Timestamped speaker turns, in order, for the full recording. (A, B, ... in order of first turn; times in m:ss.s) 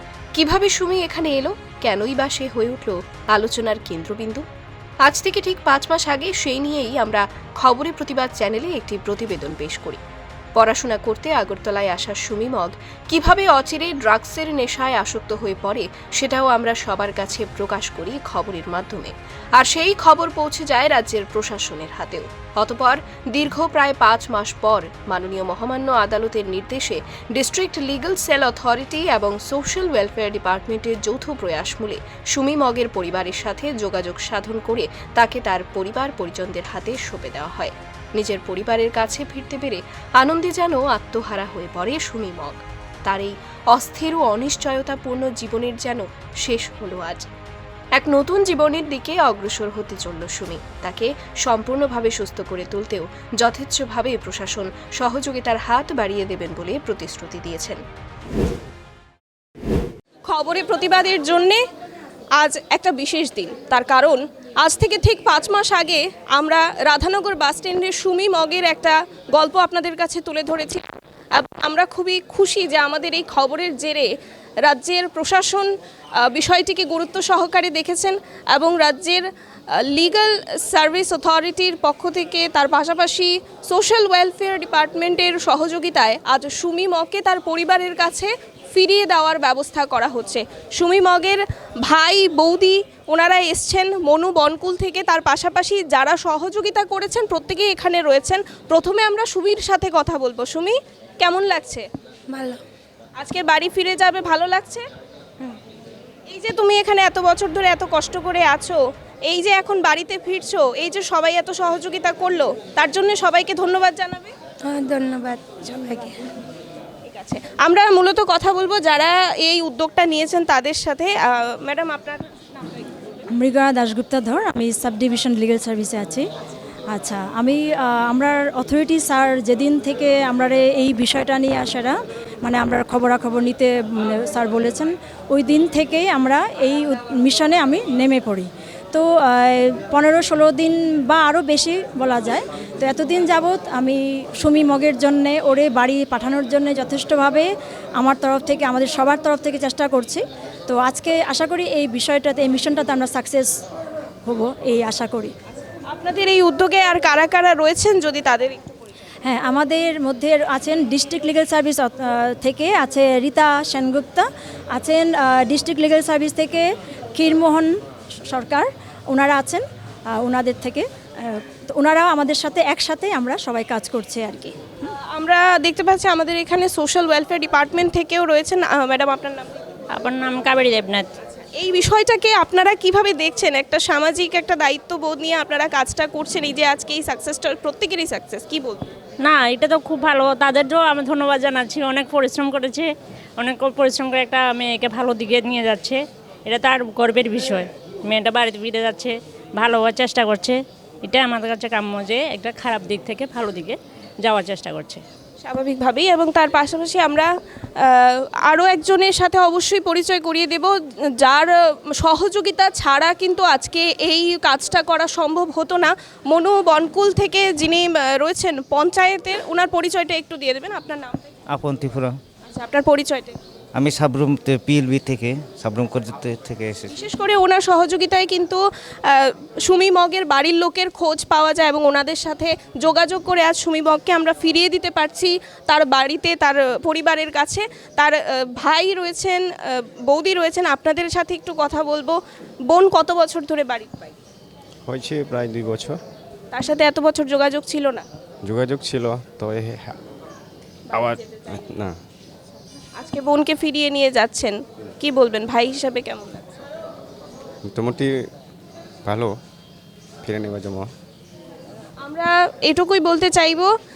0:00.4-0:04.4 A
0:05.0-0:10.0 A
0:10.6-0:47.3 A
0:48.0-0:57.8 A
1:00.3-1:01.6 B
1:02.4-1:14.1 B
1:14.6-1:15.7 B
1:16.2-1:19.2 B
1:19.8-1:41.9 B
1:43.2-1:44.8 B
1:46.3-1:54.3 B
1:57.0-2:03.0 B
2:03.4-2:06.2 C
2:06.9-2:27.4 C
2:28.0-2:33.4 C
2:34.3-2:35.3 C
2:35.9-2:38.8 B
2:39.2-2:44.2 C
2:44.8-2:46.6 C
2:47.2-2:47.7 C
2:48.3-2:49.6 C
2:50.2-2:54.5 C
2:54.9-2:59.6 B
3:00.0-3:01.1 D
3:01.6-3:08.9 B
3:09.2-3:25.0 D
3:25.4-3:41.3 B
3:41.5-3:42.2 E
3:42.5-3:43.4 B
3:43.7-3:46.9 E
3:46.9-4:02.2 B
4:02.7-4:04.2 B
4:04.8-4:06.0 F
4:06.5-4:08.1 B
4:08.4-4:10.0 F
4:10.9-4:11.6 B
4:10.9-4:12.0 F
4:13.0-4:16.6 B
4:17.6-4:18.1 F
4:19.0-4:19.3 F
4:20.2-4:20.9 F
4:22.0-4:23.7 B